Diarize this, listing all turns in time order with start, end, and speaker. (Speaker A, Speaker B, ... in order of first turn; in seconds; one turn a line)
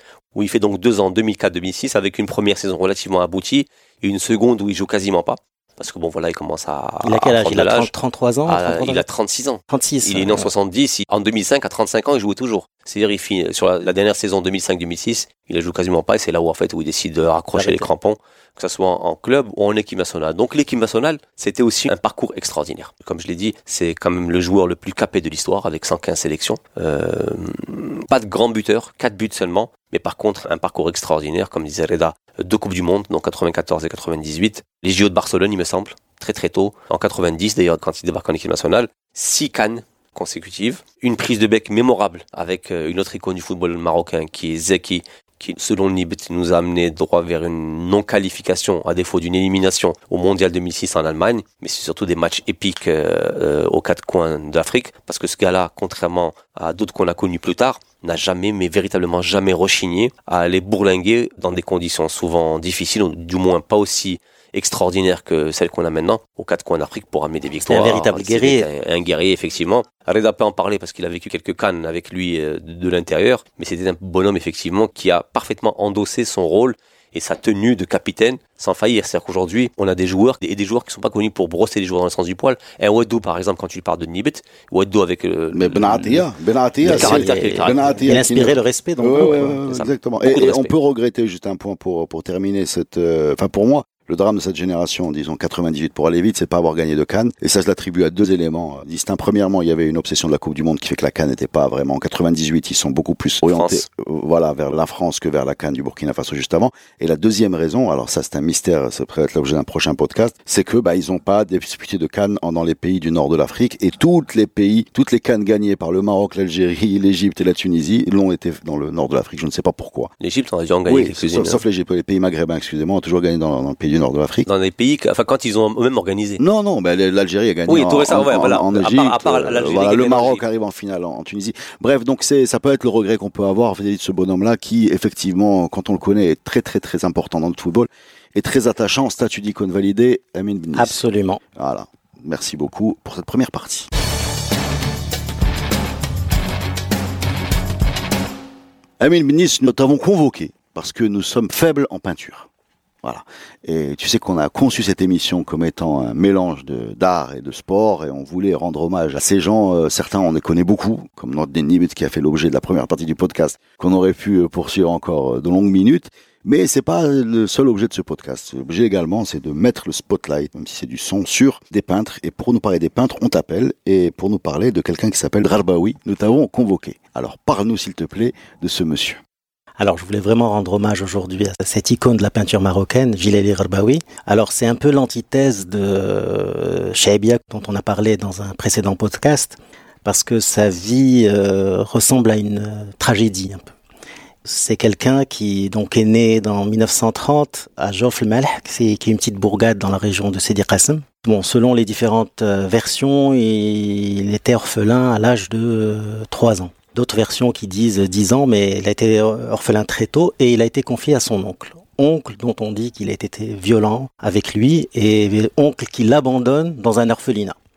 Speaker A: 0.3-7.9
Speaker B: 7.0-9.1
Speaker A: 8.5-86.3
Speaker B: 9.7-10.5
Speaker B: 17.6-17.9
Speaker B: 67.7-68.7
Speaker C: 85.5-120.1
Speaker B: 86.8-89.6
Speaker A: 86.8-88.0
Speaker A: 89.7-90.7
Speaker A: 103.4-103.8
Speaker A: 120.2-121.6
Speaker C: 120.9-124.5
Speaker A: 124.5-126.4
Speaker C: 126.4-141.0
Speaker A: 127.7-130.4
Speaker B: 140.8-141.4
Speaker C: 141.6-143.9
Speaker C: 149.0-152.5
Speaker C: 153.0-179.2
Speaker B: 179.8-193.7
Speaker B: 194.4-217.6